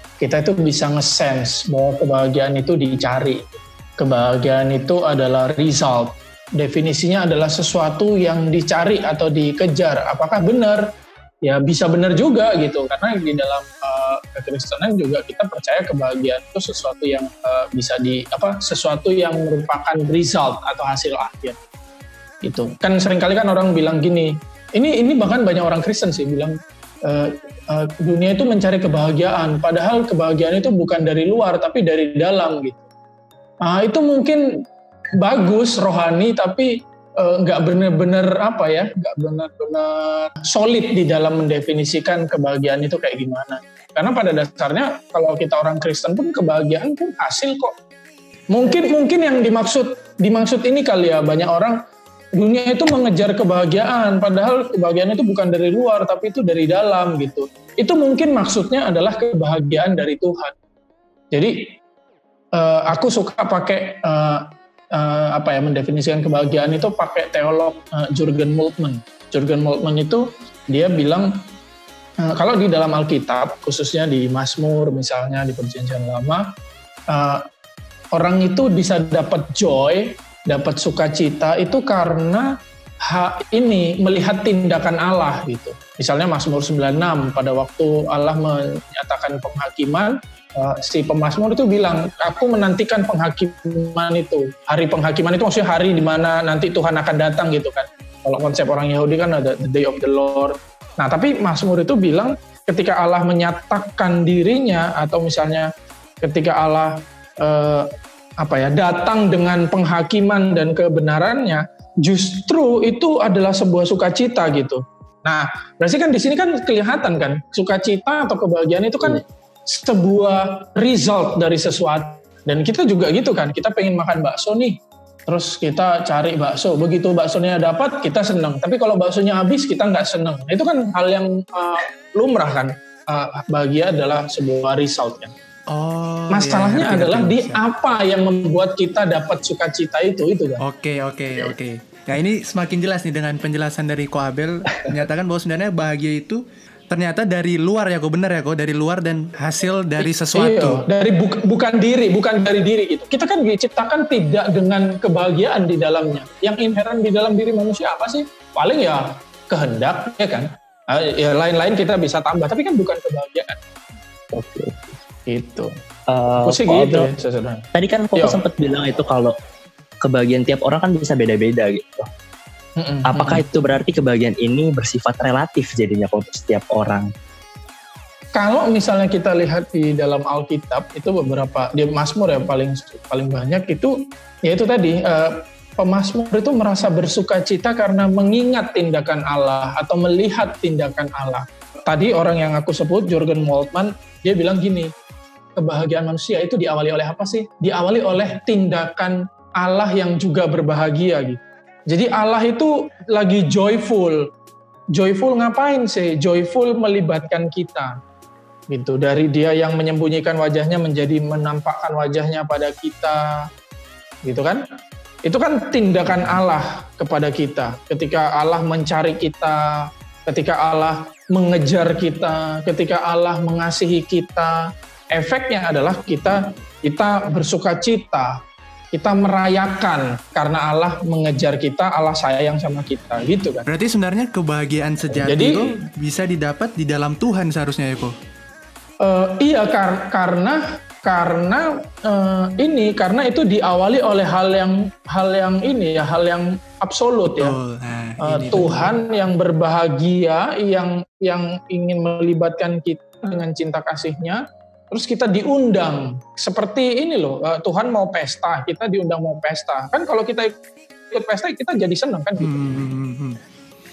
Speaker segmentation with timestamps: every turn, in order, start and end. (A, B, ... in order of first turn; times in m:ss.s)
0:00.2-0:10.9 A
0:11.4-0:21.6 A
0:22.4-0:32.8 A
0:33.6-0:34.6 A
0:35.2-0:47.8 A
0:48.5-0:51.8 A
0:52.4-1:00.5 A
1:01.3-1:01.8 A
1:02.5-1:11.4 A
1:12.2-1:16.5 A
1:17.1-1:17.4 A
1:18.1-1:22.5 A
1:23.0-1:45.7 A
1:46.2-2:15.3 A
2:15.7-2:17.6 B
2:16.3-2:20.6 A
2:20.6-2:30.8 B
2:30.0-2:43.6 A
2:44.3-2:44.9 C
2:45.3-2:45.7 A
2:46.1-2:47.1 C
2:46.4-2:48.4 A
2:47.7-2:49.3 C
2:50.0-2:52.1 C
2:52.8-2:53.4 A
2:53.0-2:57.1 C
2:58.4-3:14.9 A
3:15.6-3:24.3 A
3:24.9-3:28.0 A
3:28.7-3:33.5 A
3:34.2-3:34.6 A
3:35.2-3:48.4 A
3:48.9-3:53.7 A
3:53.7-3:58.1 B
3:55.1-3:55.8 A
3:59.0-4:07.6 A
4:07.4-4:08.9 B
4:08.2-4:20.6 A
4:21.1-4:22.8 A
4:22.4-4:23.4 B